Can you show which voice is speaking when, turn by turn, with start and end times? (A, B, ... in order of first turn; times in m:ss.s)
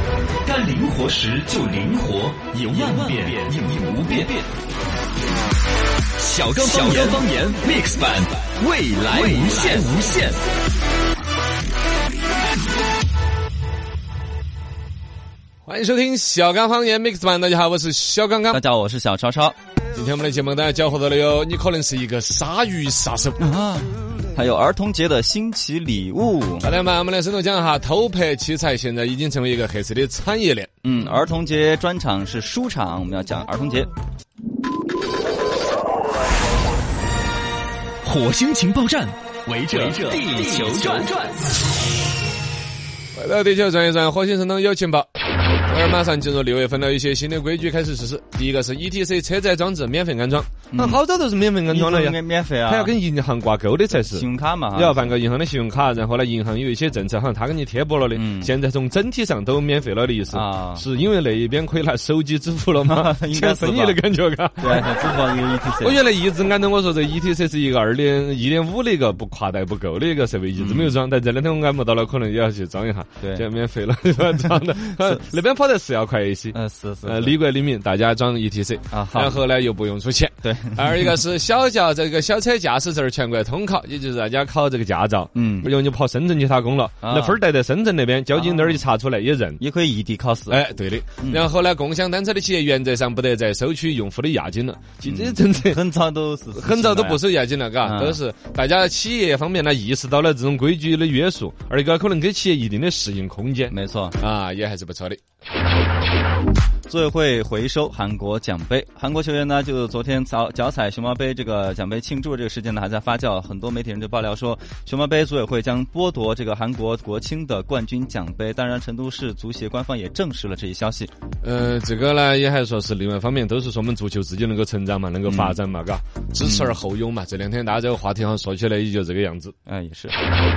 0:00.4-0:04.4 A
0:06.2-0:10.4 A
0:15.6-0:18.6 B
0:18.5-0:19.6 C
0:19.9-0:23.4 B
0:23.4-0:26.7 C
0:26.6-0:30.8 B
0:30.8-0:33.9 C
0:38.0-0:41.4 A
0:39.7-0:40.1 B
0:43.1-0:45.0 B
0:45.7-1:04.9 B
0:50.7-0:51.0 C
0:51.7-0:52.9 C
0:53.9-0:55.1 C
0:58.1-0:58.5 C
1:00.3-1:00.8 C
1:02.8-1:04.0 C
1:04.6-1:06.0 C
1:05.8-1:29.6 B
1:10.6-1:11.0 C
1:16.5-1:17.3 C
1:18.9-1:19.4 C
1:20.4-1:21.2 C
1:25.3-1:25.7 C
1:27.0-1:27.4 C
1:28.3-1:28.8 C
1:29.6-1:30.6 C
1:30.5-1:35.8 B
1:35.0-1:37.2 C
1:36.6-1:45.2 B
1:37.8-1:38.2 C
1:43.7-1:44.2 C
1:46.9-2:01.1 C
2:01.4-2:09.5 B
2:05.3-2:05.6 C
2:06.4-2:06.8 C
2:09.7-2:10.1 C